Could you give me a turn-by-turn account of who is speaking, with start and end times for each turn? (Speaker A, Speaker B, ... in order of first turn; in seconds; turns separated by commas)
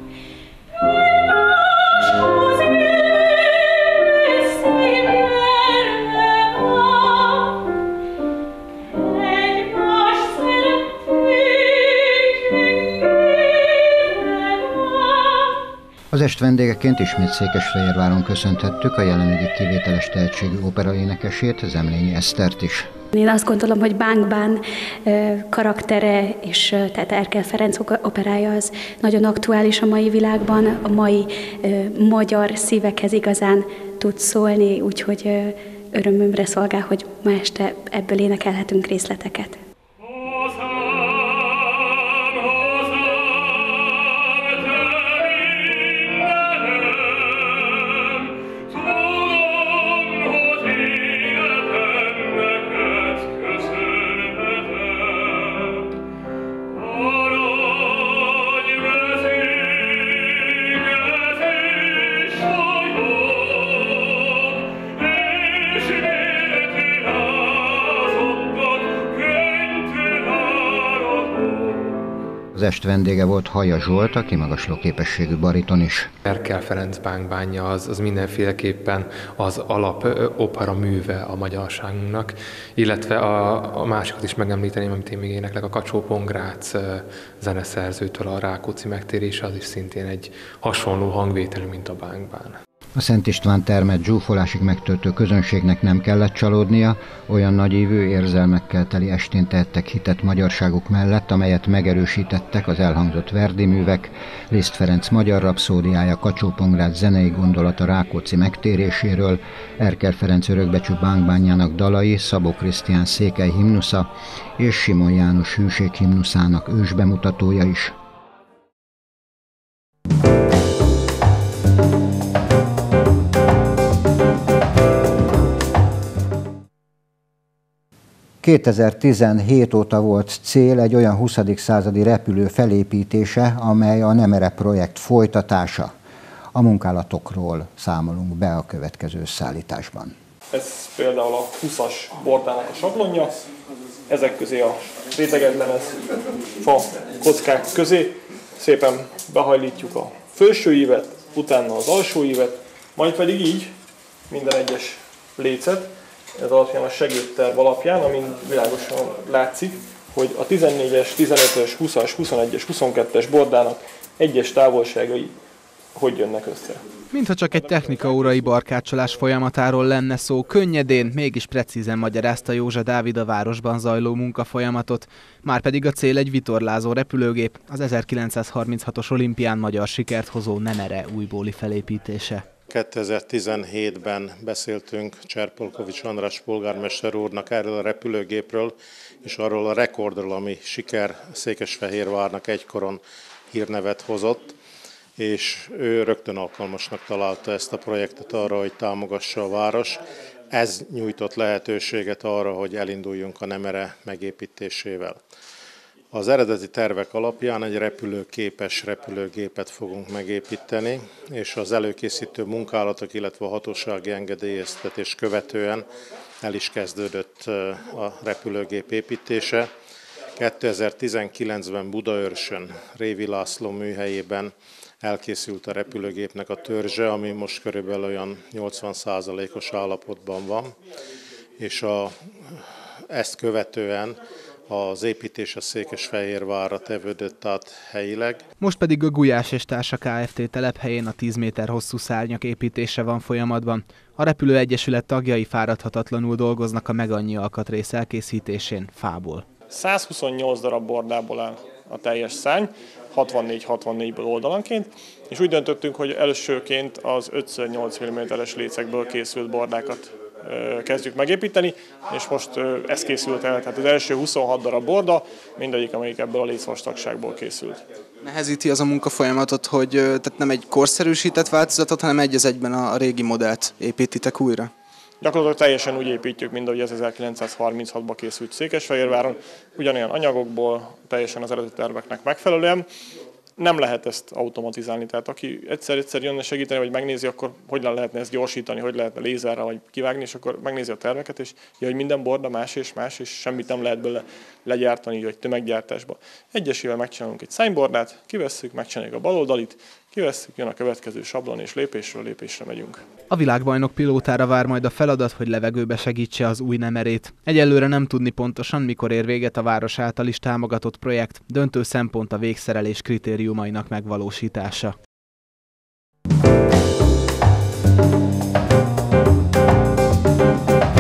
Speaker A: 16.1-22.9, Speaker B: 23.1-39.6, Speaker A: 72.5-76.1, Speaker C: 76.3-92.6, Speaker A: 93.0-118.0, Speaker A: 128.4-135.9, Speaker A: 136.5-140.1, Speaker D: 140.5-143.4, Speaker D: 144.1-146.0, Speaker D: 146.6-153.7, Speaker D: 154.3-165.3, Speaker D: 165.9-166.8, Speaker E: 167.1-182.4, Speaker F: 182.7-194.6, Speaker F: 195.2-205.2, Speaker F: 206.1-215.9, Speaker F: 216.4-219.7, Speaker F: 220.3-230.8, Speaker F: 231.6-238.4, Speaker E: 238.6-249.4, Speaker D: 249.7-267.8, Speaker G: 268.4-274.7, Speaker D: 275.2-282.9, Speaker D: 283.6-303.0, Speaker E: 303.3-314.9